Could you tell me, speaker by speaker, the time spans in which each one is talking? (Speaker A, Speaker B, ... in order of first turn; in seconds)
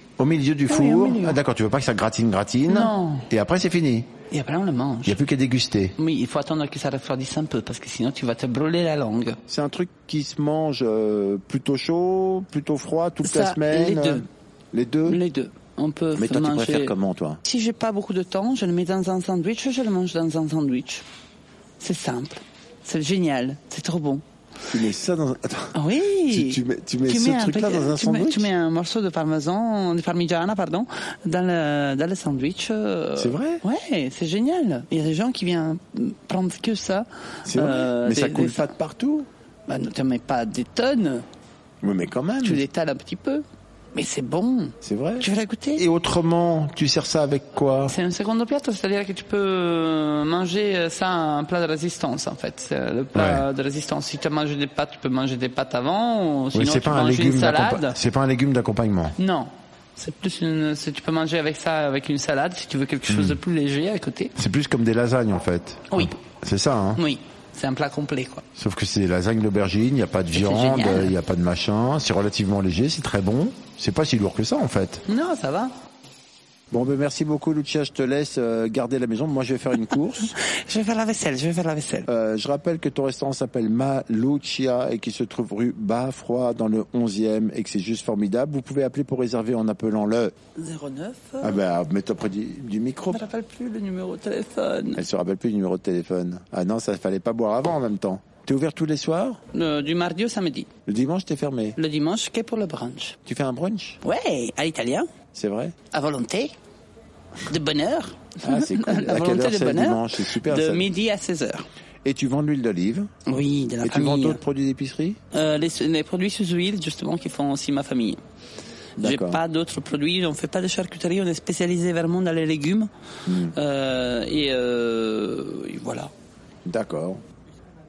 Speaker A: 0.2-4.1, 5.0-6.0, 9.5-15.2, 16.1-17.4, 24.7-25.7, 26.3-28.5, 33.2-33.6, 37.5-39.3, 41.8-42.6, 44.8-47.9, 53.1-53.4, 56.5-59.1, 63.1-63.4, 64.3-67.0, 68.5-75.0, 76.7-80.3, 82.0-90.3, 91.4-93.2, 95.0-99.4, 100.8-101.8, 103.2-104.0, 105.3-105.7, 108.4-110.9, 112.0-113.2, 113.8-115.2, 119.0-119.4, 123.2-123.5, 126.6-127.2
Speaker B: 0.7-1.4, 2.7-3.3, 4.3-5.2, 6.0-9.4, 13.2-14.2, 15.1-21.0, 21.8-24.2, 25.7-38.7, 39.7-41.2, 42.4-45.8, 47.9-58.0, 59.2-64.3, 67.0-68.4, 70.3-71.1, 75.0-75.7, 80.2-82.1, 90.5-91.6, 93.1-95.0, 99.5-100.7, 101.8-103.2, 104.0-105.1, 105.9-106.5, 107.5-111.6, 113.2-114.4, 115.3-118.2, 119.0-122.9, 123.5-126.1